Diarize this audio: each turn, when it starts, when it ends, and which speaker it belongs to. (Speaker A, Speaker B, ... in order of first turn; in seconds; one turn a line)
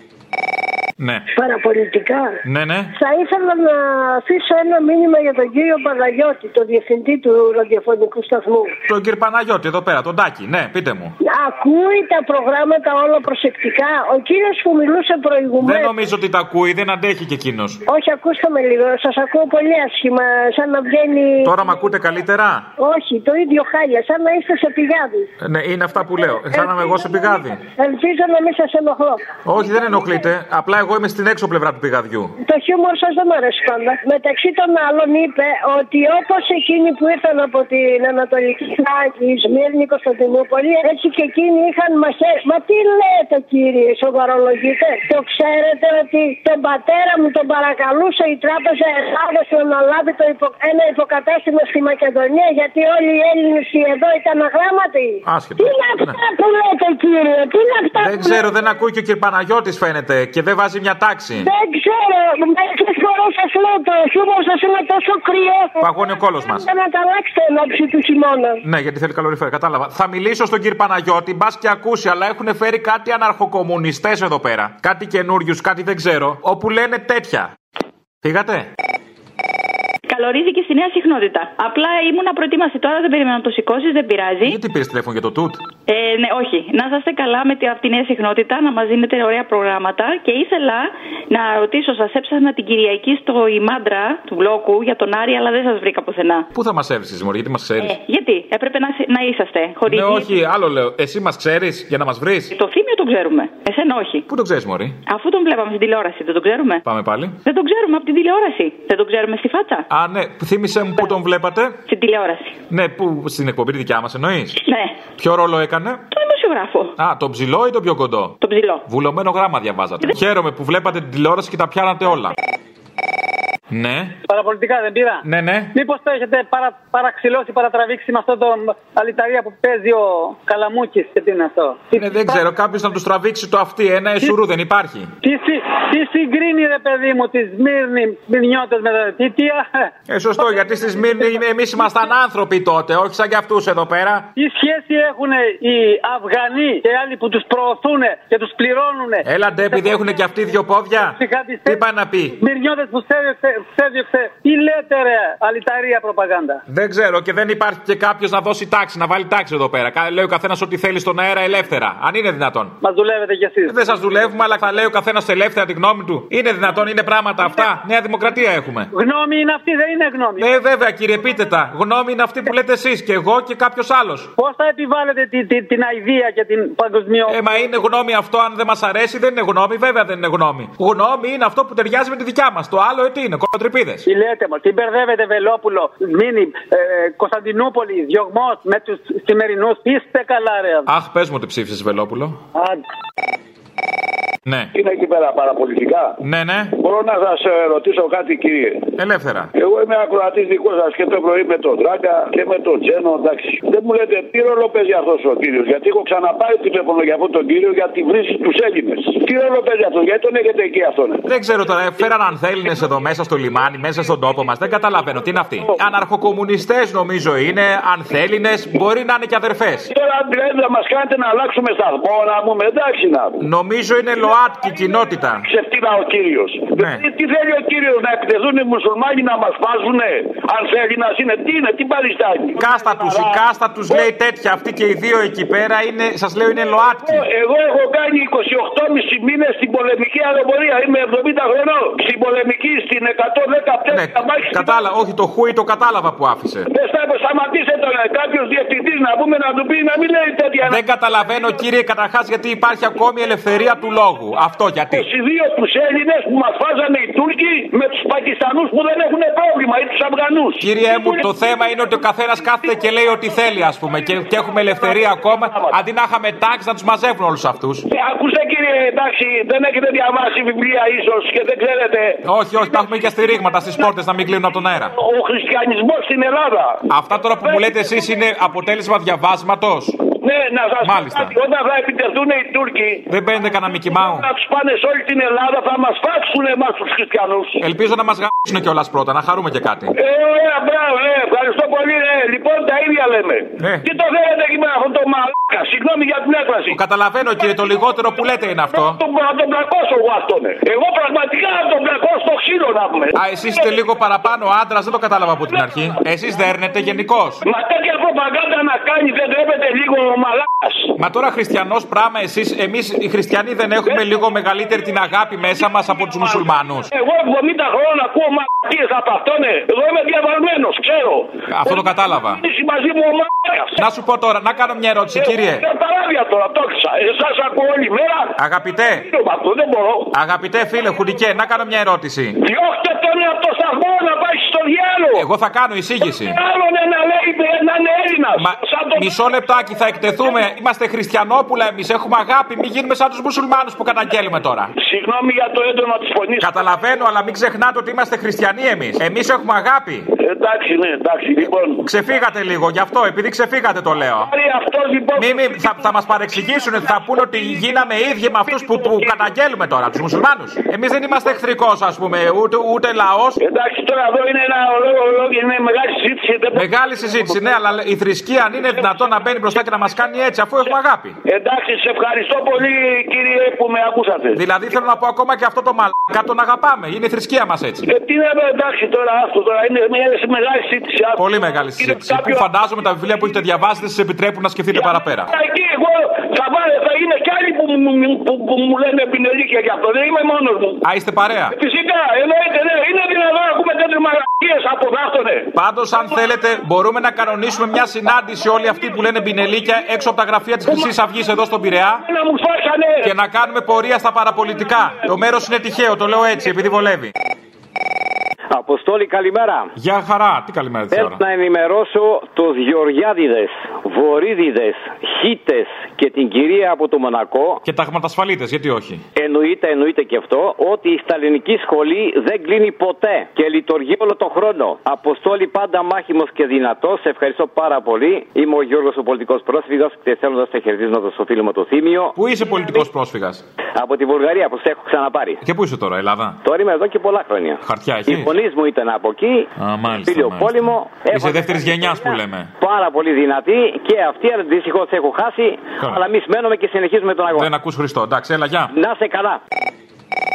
Speaker A: 1.0-1.2
Speaker B: 1.3-2.4
Speaker A: 2.5-2.9
Speaker B: 2.9-8.8
Speaker A: 8.9-11.1
Speaker B: 11.2-16.0
Speaker A: 15.6-17.8
Speaker B: 17.9-21.9
Speaker A: 21.4-22.7
Speaker B: 22.8-25.3
Speaker A: 25.4-27.6
Speaker B: 26.5-30.2
Speaker A: 29.4-32.3
Speaker B: 32.4-58.5
Speaker A: 55.2-56.2
Speaker A: 58.0-61.5
Speaker B: 61.4-68.6
Speaker A: 65.8-66.7
Speaker A: 68.6-77.5
Speaker A: 78.2-78.7
Speaker C: 80.1-84.6
Speaker A: 84.4-85.6
Speaker C: 85.9-96.5
Speaker A: 96.5-98.0
Speaker C: 97.8-100.3
Speaker A: 99.9-102.5
Speaker C: 102.5-104.2
Speaker A: 104.3-105.0
Speaker C: 105.1-106.8
Speaker A: 106.8-107.3
Speaker C: 107.4-109.8
Speaker A: 109.9-111.8
Speaker C: 111.9-112.6
Speaker A: 112.7-114.5
Speaker C: 114.6-115.0
Speaker A: 115.2-116.0
Speaker C: 116.1-116.9
Speaker A: 117.0-118.3
Speaker C: 118.4-118.8
Speaker A: 118.9-122.3
Speaker A: 123.7-124.1
Speaker D: 124.3-132.4
Speaker A: 125.2-125.7
Speaker A: 131.9-135.1
Speaker D: 135.2-139.9
Speaker A: 140.1-144.3
Speaker D: 144.3-150.0
Speaker A: 149.2-152.4
Speaker D: 151.0-151.8
Speaker D: 152.4-156.6
Speaker A: 156.7-162.8
Speaker D: 162.8-163.8
Speaker A: 163.7-168.9
Speaker D: 168.9-170.5
Speaker A: 170.4-174.3
Speaker D: 174.4-177.3
Speaker A: 177.2-184.0
Speaker D: 184.1-190.9
Speaker A: 190.8-192.4
Speaker E: 194.7-196.2
Speaker A: 196.2-196.7
Speaker E: 196.8-198.9
Speaker A: 199.0-199.5
Speaker E: 199.5-211.2
Speaker A: 211.3-219.9
Speaker E: 219.9-223.4
Speaker A: 223.4-225.5
Speaker E: 225.4-234.0
Speaker A: 226.8-227.0
Speaker A: 232.6-237.3
Speaker E: 237.0-244.8
Speaker A: 243.9-246.7
Speaker E: 246.7-251.6
Speaker A: 250.7-255.1
Speaker E: 254.9-261.3
Speaker A: 260.6-267.8
Speaker E: 264.6-265.8
Speaker E: 267.9-272.2
Speaker A: 272.2-274.9
Speaker E: 274.9-276.8
Speaker A: 276.9-279.9
Speaker E: 277.4-277.7
Speaker E: 280.2-283.1
Speaker A: 280.8-281.3
Speaker A: 283.1-284.3
Speaker E: 283.8-287.6
Speaker A: 287.6-289.9
Speaker E: 289.9-296.8
Speaker A: 293.6-293.9
Speaker A: 296.7-299.0
Speaker E: 297.4-303.9
Speaker A: 303.1-307.4
Speaker E: 305.5-306.0
Speaker E: 307.4-310.9
Speaker A: 311.0-316.9
Speaker E: 313.8-314.1
Speaker E: 316.0-323.8
Speaker A: 321.5-322.4
Speaker A: 323.8-325.6
Speaker E: 325.1-330.1
Speaker A: 328.4-329.0
Speaker A: 330.1-332.4
Speaker E: 332.4-335.3
Speaker A: 335.1-336.4
Speaker E: 336.0-339.2
Speaker A: 338.4-344.7
Speaker E: 340.0-340.4
Speaker E: 344.8-346.8
Speaker A: 346.4-350.1
Speaker E: 350.2-351.9
Speaker A: 351.8-354.3
Speaker E: 354.2-355.8
Speaker A: 355.2-363.4
Speaker E: 356.7-357.7
Speaker E: 358.4-359.2
Speaker E: 363.4-367.6
Speaker A: 366.5-371.1
Speaker E: 368.7-369.6
Speaker E: 371.2-374.4
Speaker A: 374.3-377.9
Speaker E: 377.9-382.4
Speaker A: 381.2-385.3
Speaker E: 384.7-390.8
Speaker A: 390.8-391.6
Speaker E: 391.5-395.5
Speaker A: 395.5-402.0
Speaker E: 400.6-400.9
Speaker E: 402.0-403.1
Speaker A: 403.0-407.1
Speaker F: 408.5-409.6
Speaker A: 409.8-411.2
Speaker F: 410.9-417.6
Speaker A: 417.6-419.0
Speaker F: 419.2-432.1
Speaker A: 432.1-433.4
Speaker F: 433.8-435.4
Speaker A: 435.4-436.4
Speaker F: 436.4-437.6
Speaker A: 437.6-438.3
Speaker F: 438.1-439.4
Speaker A: 439.6-442.5
Speaker F: 440.1-447.4
Speaker A: 445.8-446.1
Speaker A: 447.3-448.7
Speaker F: 448.8-449.4